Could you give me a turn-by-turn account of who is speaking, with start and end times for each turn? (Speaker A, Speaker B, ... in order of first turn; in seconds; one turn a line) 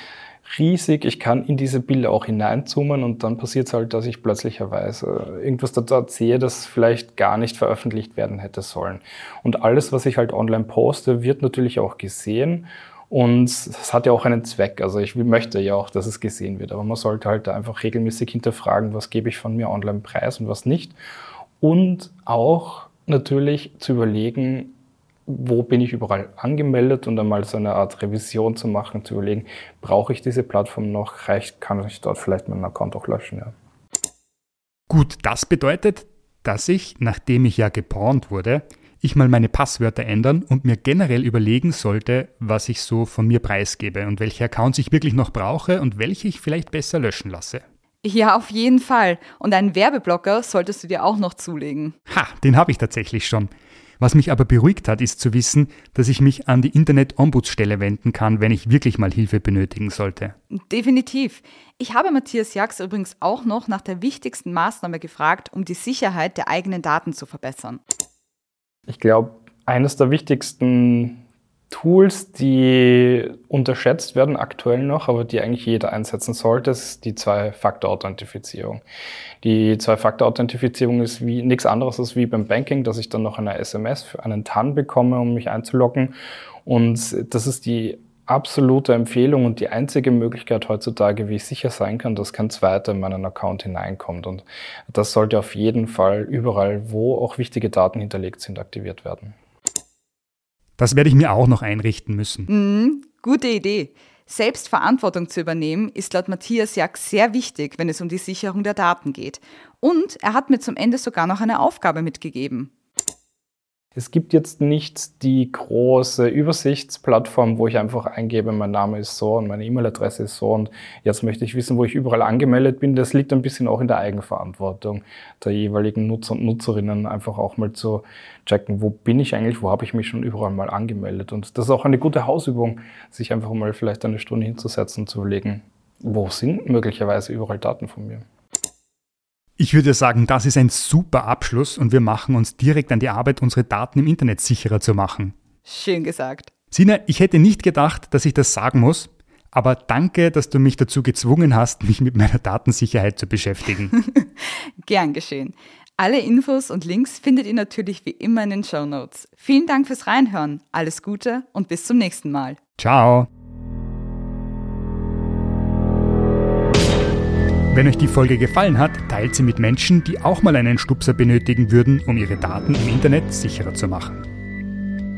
Speaker A: 0.5-20.9
Speaker A: 21.6-24.7
Speaker A: 25.3-33.5
Speaker B: 34.9-47.6
Speaker C: 48.0-51.9
Speaker B: 52.1-60.3
Speaker C: 60.5-67.8
Speaker A: 68.9-78.8
Speaker A: 79.4-86.1
Speaker A: 86.6-99.3
Speaker B: 100.8-102.5
Speaker C: 102.5-112.7
Speaker A: 113.9-138.2
Speaker B: 139.6-145.3
Speaker C: 145.6-146.5
Speaker B: 146.7-153.9
Speaker C: 153.9-162.6
Speaker B: 162.8-163.3
Speaker B: 167.7-174.3